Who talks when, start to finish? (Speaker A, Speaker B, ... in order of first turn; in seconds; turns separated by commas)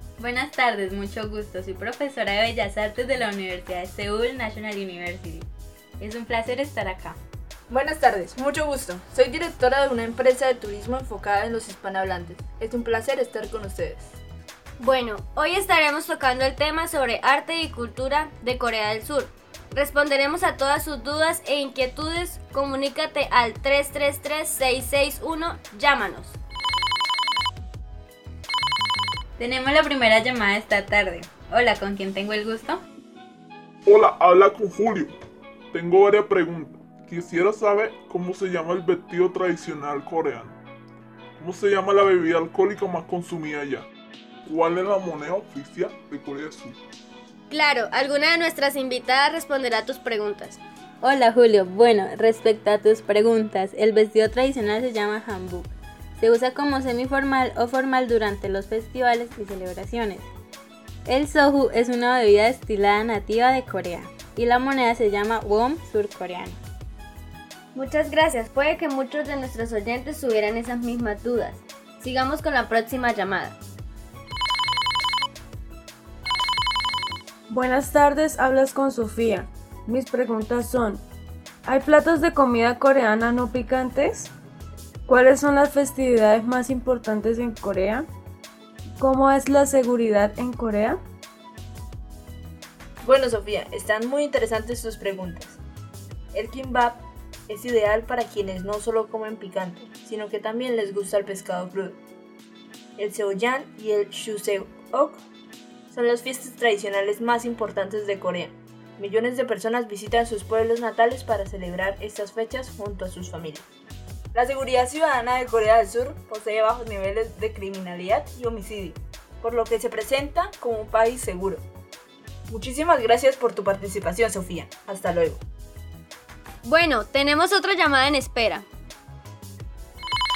Speaker A: 0.2-5.5, Speaker A: 6.0-7.2, Speaker B: 7.7-14.1, Speaker C: 14.8-26.4, Speaker A: 29.4-32.8, Speaker D: 33.9-35.1, Speaker D: 35.7-40.6, Speaker D: 41.4-43.9, Speaker D: 44.5-46.8, Speaker C: 47.5-50.6, Speaker A: 51.0-60.3, Speaker A: 61.1-66.6, Speaker C: 67.7-73.6, Speaker E: 77.5-81.0, Speaker E: 81.7-84.3, Speaker E: 85.1-88.1, Speaker E: 89.0-91.0, Speaker B: 93.0-95.6, Speaker B: 96.3-102.0, Speaker B: 103.0-105.2, Speaker B: 105.9-113.7, Speaker B: 114.3-121.7, Speaker B: 122.5-125.4, Speaker C: 126.6-128.7